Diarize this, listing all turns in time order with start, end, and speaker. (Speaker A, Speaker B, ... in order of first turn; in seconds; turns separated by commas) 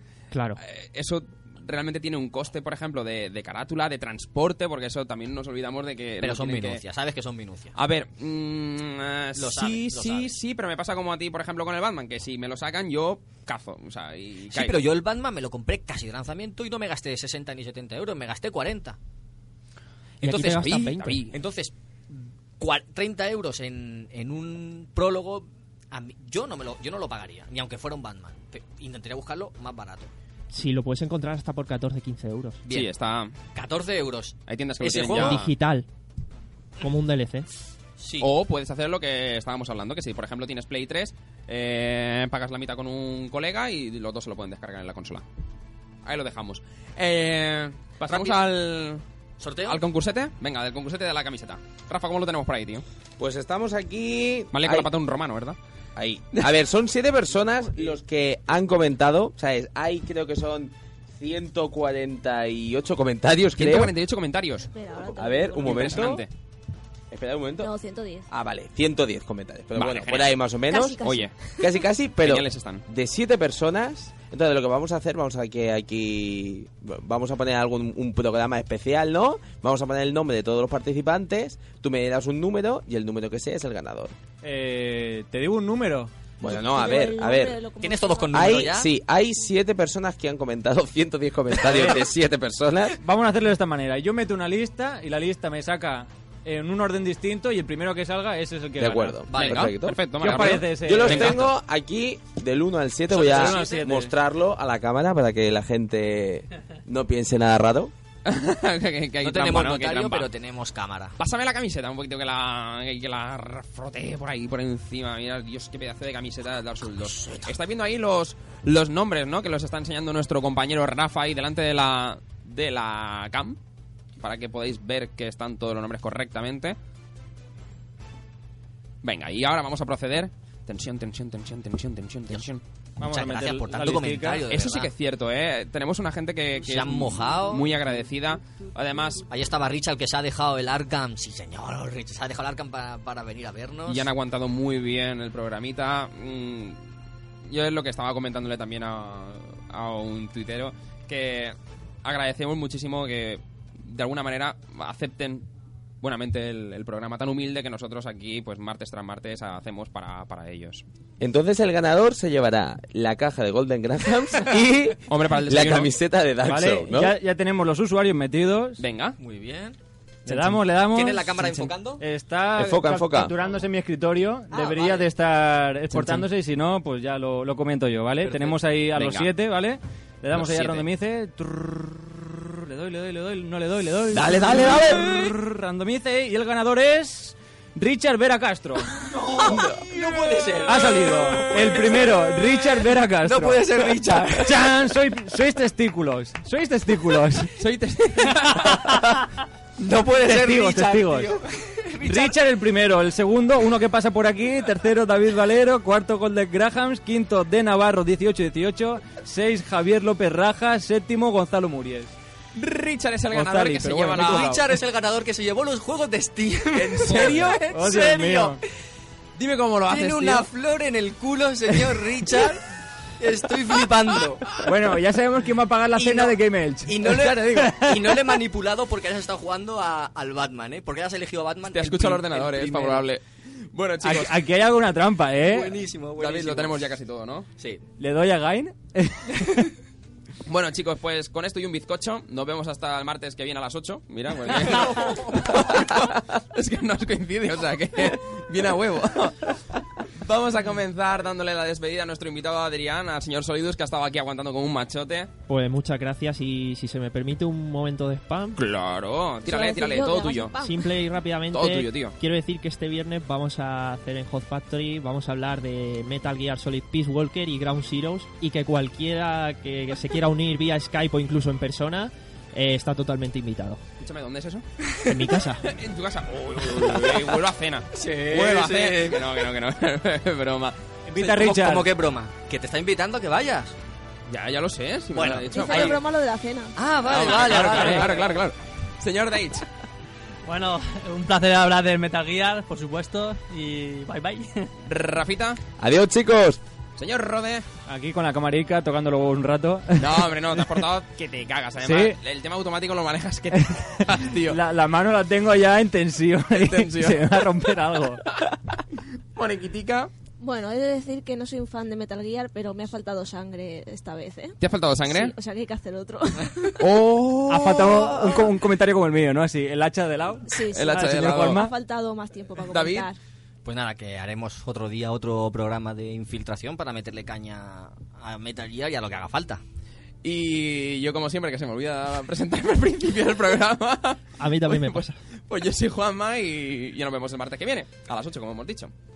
Speaker A: 0.3-0.6, Speaker B: 0.6-6.8, Speaker C: 6.2-7.8, Speaker B: 7.7-14.8, Speaker C: 9.4-10.3, Speaker C: 14.5-19.0, Speaker A: 20.2-21.2, Speaker C: 20.2-21.7, Speaker B: 20.3-21.4, Speaker C: 22.6-30.1, Speaker A: 30.5-32.6, Speaker C: 32.6-32.9, Speaker B: 32.7-33.3, Speaker C: 33.5-35.4, Speaker B: 34.5-35.5, Speaker A: 35.1-35.9, Speaker A: 36.8-37.5, Speaker C: 38.0-38.3, Speaker B: 38.2-45.2, Speaker B: 46.0-49.0, Speaker C: 48.0-48.4, Speaker C: 49.4-49.8, Speaker B: 49.7-52.8, Speaker D: 53.2-54.9, Speaker B: 54.5-55.6, Speaker D: 56.0-63.9, Speaker B: 63.5-64.7, Speaker E: 64.6-66.2, Speaker D: 65.1-66.2, Speaker B: 65.6-66.3, Speaker D: 67.1-67.7, Speaker E: 67.6-68.3, Speaker D: 68.3-71.0, Speaker B: 69.8-70.5, Speaker E: 70.6-71.7, Speaker B: 71.0-71.3, Speaker D: 71.5-84.2, Speaker B: 72.2-72.8, Speaker F: 84.4-86.1, Speaker D: 86.4-87.6, Speaker E: 86.4-88.7, Speaker C: 87.8-88.9, Speaker D: 88.3-93.0, Speaker F: 91.6-92.0, Speaker F: 93.0-99.3, Speaker D: 98.8-107.9, Speaker C: 99.3-99.7, Speaker B: 99.3-101.5, Speaker F: 100.2-101.4, Speaker C: 103.1-103.9, Speaker F: 103.1-104.1, Speaker B: 108.2-110.3, Speaker C: 109.2-111.1, Speaker B: 111.2-123.6, Speaker C: 117.0-117.5, Speaker B: 124.2-126.8, Speaker B: 129.0-132.6, Speaker F: 133.0-134.4, Speaker C: 133.0-134.9, Speaker B: 134.5-139.2, Speaker C: 136.6-137.7, Speaker C: 139.3-144.1, Speaker B: 143.9-146.8, Speaker B: 147.5-155.4, Speaker B: 156.0-160.8, Speaker D: 161.2-167.1, Speaker B: 165.1-165.9, Speaker F: 166.4-168.8, Speaker B: 168.8-169.2, Speaker C: 169.2-169.8, Speaker F: 170.3-188.9, Speaker C: 170.3-172.0, Speaker D: 172.6-173.3, Speaker C: 174.5-175.1, Speaker C: 178.2-178.6, Speaker B: 178.9-179.3, Speaker B: 180.3-180.8, Speaker D: 184.1-185.3, Speaker C: 184.4-185.0, Speaker C: 189.0-194.8, Speaker D: 189.4-189.8, Speaker F: 190.6-197.5, Speaker B: 197.6-199.2, Speaker F: 198.5-198.8, Speaker C: 199.8-202.4, Speaker F: 200.0-201.3, Speaker F: 202.0-212.1, Speaker B: 212.6-214.6, Speaker F: 213.3-214.6, Speaker C: 213.8-218.6, Speaker B: 216.7-217.6, Speaker F: 217.2-218.6, Speaker B: 219.4-220.5, Speaker C: 219.9-222.6, Speaker C: 223.2-224.7, Speaker F: 224.6-228.2, Speaker C: 225.9-233.1, Speaker B: 231.7-234.4, Speaker F: 234.0-235.8, Speaker C: 235.4-236.8, Speaker B: 236.2-237.5, Speaker C: 237.6-237.9, Speaker F: 238.0-239.7, Speaker B: 240.4-255.3, Speaker C: 244.5-245.5, Speaker A: 255.5-258.6, Speaker B: 258.6-260.6, Speaker E: 259.5-260.9, Speaker C: 260.1-260.4, Speaker A: 260.6-273.8, Speaker B: 261.5-262.1, Speaker B: 274.0-274.6, Speaker A: 275.1-275.7, Speaker B: 275.6-280.8, Speaker C: 276.6-277.4, Speaker C: 277.9-279.5, Speaker F: 281.1-281.9, Speaker C: 281.2-283.8, Speaker B: 284.3-286.0, Speaker C: 285.1-286.0, Speaker E: 285.4-286.7, Speaker C: 286.8-288.4, Speaker B: 287.1-289.7, Speaker F: 287.3-288.1, Speaker G: 290.4-294.7, Speaker B: 294.9-295.6, Speaker D: 295.8-296.6, Speaker B: 297.0-297.7, Speaker F: 297.9-300.6, Speaker B: 300.0-304.6, Speaker F: 301.8-302.2, Speaker F: 303.6-308.2, Speaker B: 306.5-307.6, Speaker B: 308.3-308.8, Speaker B: 309.4-310.1, Speaker E: 310.4-316.9, Speaker B: 314.6-315.3, Speaker B: 316.8-317.7, Speaker F: 317.0-321.7, Speaker C: 317.8-318.4, Speaker E: 320.5-323.2, Speaker B: 320.7-321.6, Speaker B: 322.6-323.1, Speaker C: 323.6-329.6, Speaker B: 330.2-338.9, Speaker A: 334.4-335.2